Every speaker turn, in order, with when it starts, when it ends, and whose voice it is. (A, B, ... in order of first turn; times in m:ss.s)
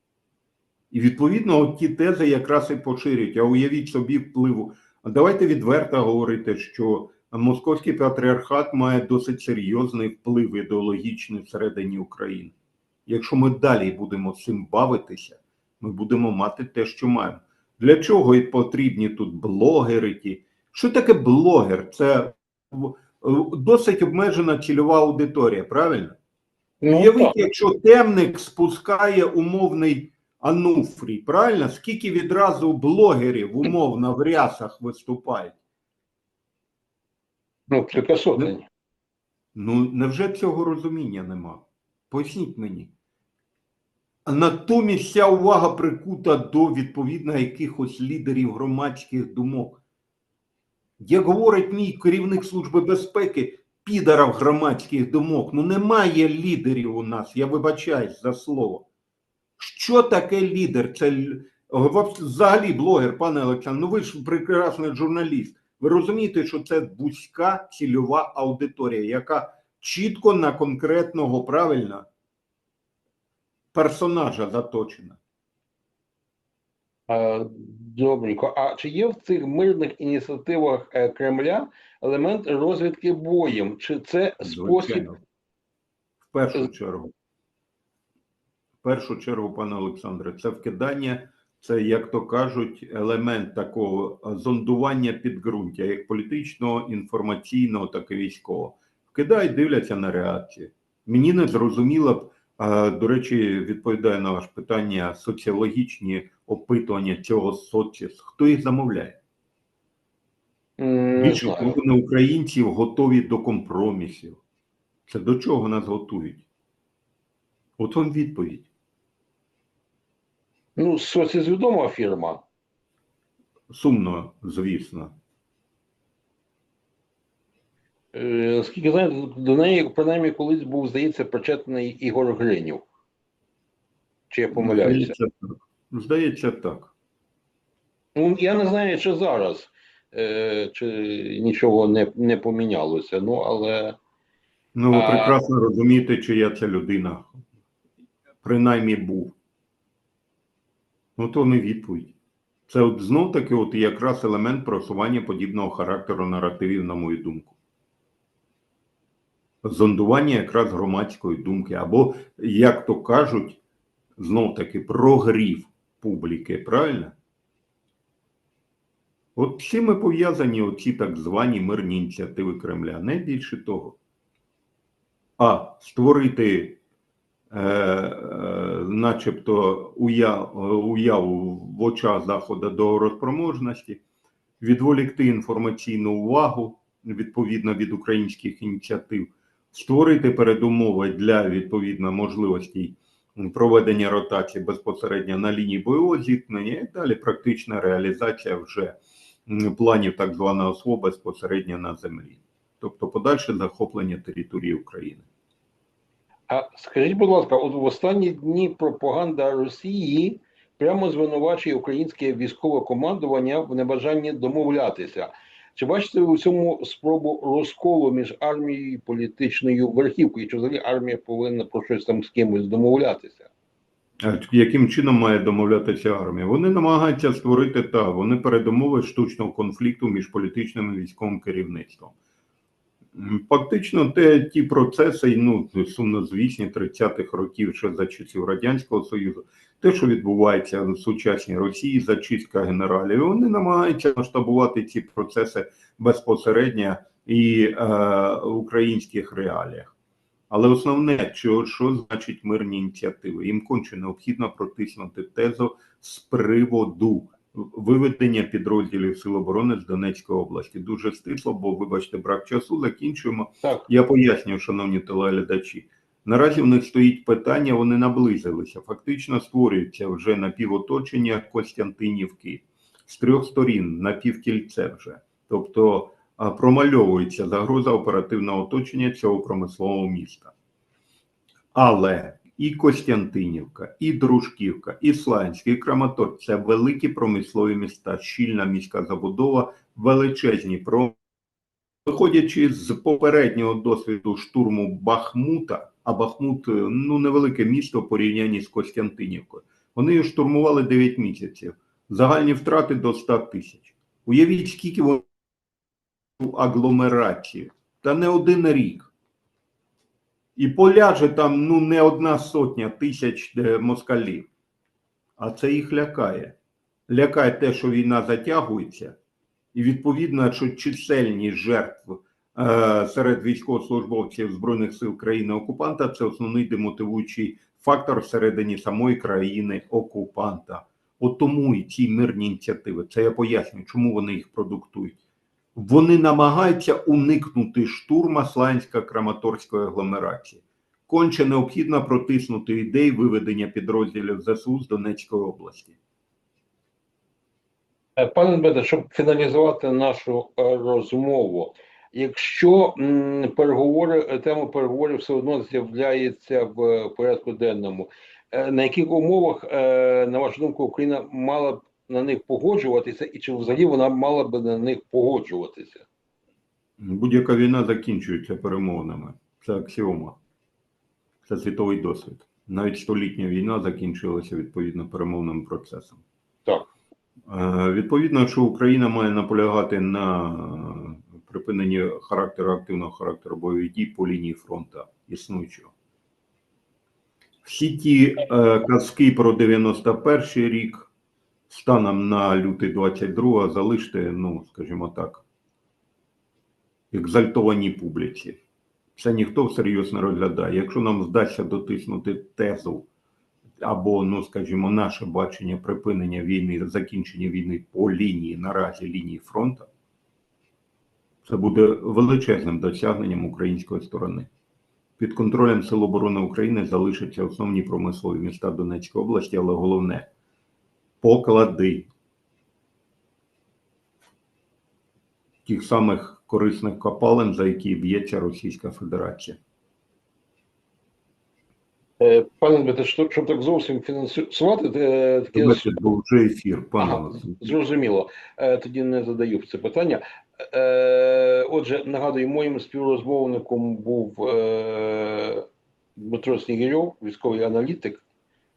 0:00.9-0:12.5 A
0:13.1-0:26.2 A
0:26.8-0:27.4 B
0:26.9-0:35.5 A
0:37.7-0:38.6 B
0:39.5-0:42.9 A
0:44.2-0:49.8 A
0:51.0-0:58.9 A
0:59.6-1:12.1 A
1:13.7-1:15.2 A
1:17.1-1:25.1 B
1:24.4-1:25.2 A
1:26.3-1:27.1 A
1:28.8-1:49.2 A
1:50.8-1:51.8 B
1:51.2-1:54.4 A
1:55.1-1:56.4 A
1:57.8-1:58.7 A
2:00.8-2:02.4 B
2:03.7-2:05.1 A
2:08.1-2:12.8 B
2:14.3-2:15.1 B
2:14.5-2:16.9 A
2:18.2-2:24.0 B
2:24.7-2:27.4 A
2:24.9-2:25.4 B
2:28.4-2:29.3 A
2:31.2-2:32.1 A
2:32.7-2:37.5 A
2:39.6-2:43.6 A
2:44.2-2:47.1 A
2:49.4-2:54.0 A
2:55.4-2:56.8 A
2:57.5-3:04.0 A
3:04.6-3:25.2 A
3:26.5-3:43.5 B
3:44.2-3:52.1 A
3:53.1-4:09.9 A
4:10.5-4:40.5 A
4:41.7-4:51.2 A
4:52.0-5:05.3 A
5:06.4-5:09.1 A
5:10.6-5:14.5 A
5:15.4-5:16.5 A
5:17.1-5:19.2 A
5:19.7-5:35.2 A
5:35.7-5:45.9 A
5:48.2-6:06.0 B
6:07.0-6:10.4 A
6:11.4-6:16.2 A
6:17.5-6:25.9 A
6:27.6-6:31.1 A
6:31.7-6:35.4 A
6:37.1-6:38.6 A
6:39.2-6:43.1 A
6:43.8-6:49.9 A
6:51.4-6:54.5 A
6:55.2-7:00.3 A
7:01.2-7:02.1 A
7:05.6-7:09.6 A
7:12.2-7:15.9 B
7:15.5-7:17.7 A
7:17.0-7:25.6 B
7:26.2-7:28.2 B